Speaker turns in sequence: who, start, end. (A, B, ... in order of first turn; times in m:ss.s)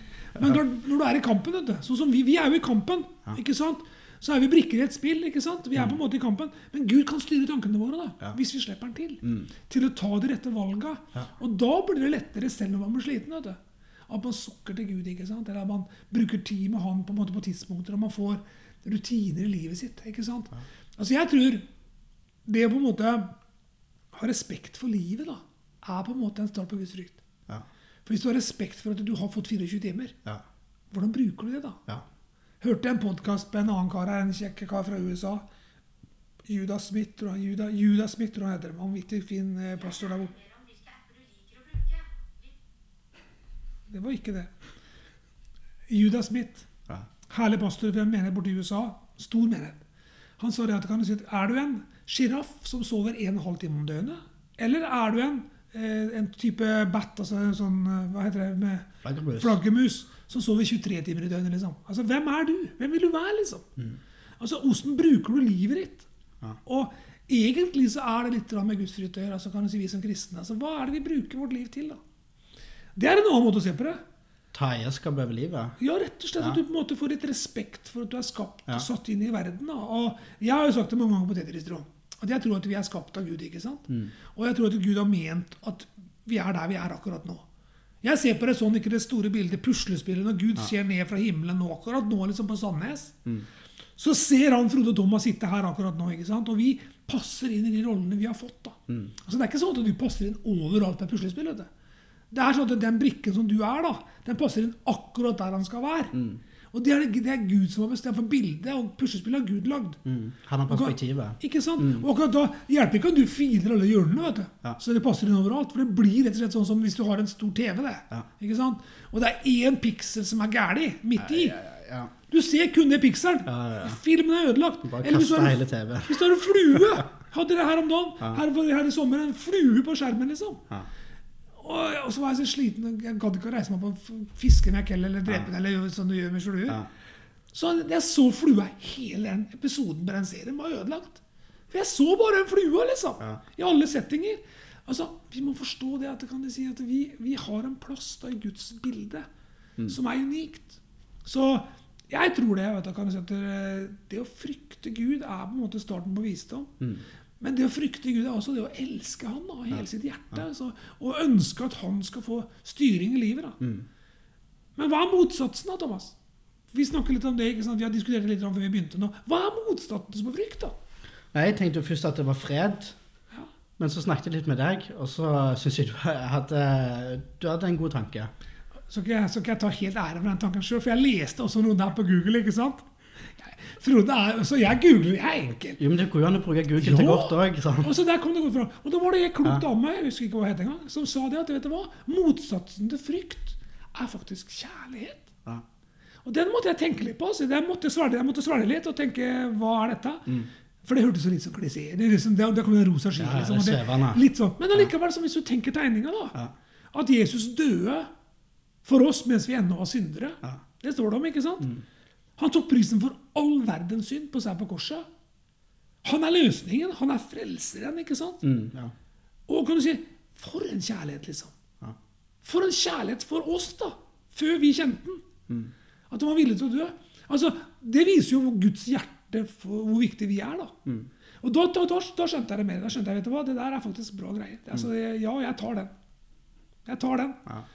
0:00.3-0:21.6 A
0:22.4-0:23.3 A
0:24.1-0:27.2 A
0:28.0-0:30.1 A
0:30.9-0:31.8 A
0:32.6-0:35.4 A
0:36.4-0:40.5 A
0:43.9-0:44.5 A
0:45.9-0:46.7 A
0:47.3-0:49.8 A
0:50.4-1:03.6 A
0:59.0-0:59.6 B
1:04.4-1:06.1 A
1:06.6-1:12.0 A
1:13.0-1:14.0 A
1:14.5-1:15.8 B
1:15.8-1:27.4 A
1:28.0-1:33.2 A
1:34.0-1:41.7 A
1:42.3-1:46.2 A
1:46.1-1:46.4 B
1:46.7-1:50.0 A
1:50.0-1:52.1 B
1:50.7-2:01.6 A
2:01.2-2:02.1 B
2:02.3-2:10.6 A
2:03.4-2:04.0 B
2:04.8-2:06.3 B
2:11.6-2:16.8 A
2:17.5-2:29.2 A
2:29.9-2:36.7 A
2:37.4-2:43.6 A
2:43.6-2:43.9 B
2:44.8-2:46.2 A
2:46.7-2:50.7 A
2:51.3-2:53.0 B
2:53.8-2:58.3 B
2:58.9-3:02.8 A
3:03.4-3:05.8 A
3:05.8-3:07.9 B
3:06.8-3:15.3 A
3:16.2-3:26.4 A
3:23.2-3:24.2 B
3:26.9-3:28.1 A
3:28.8-3:31.7 A
3:32.4-3:35.0 A
3:36.0-3:38.4 A
3:38.4-3:38.9 B
3:39.5-3:41.5 A
3:42.4-3:45.2 A
3:46.1-3:50.8 A
3:51.4-3:55.9 A
3:56.8-3:57.4 A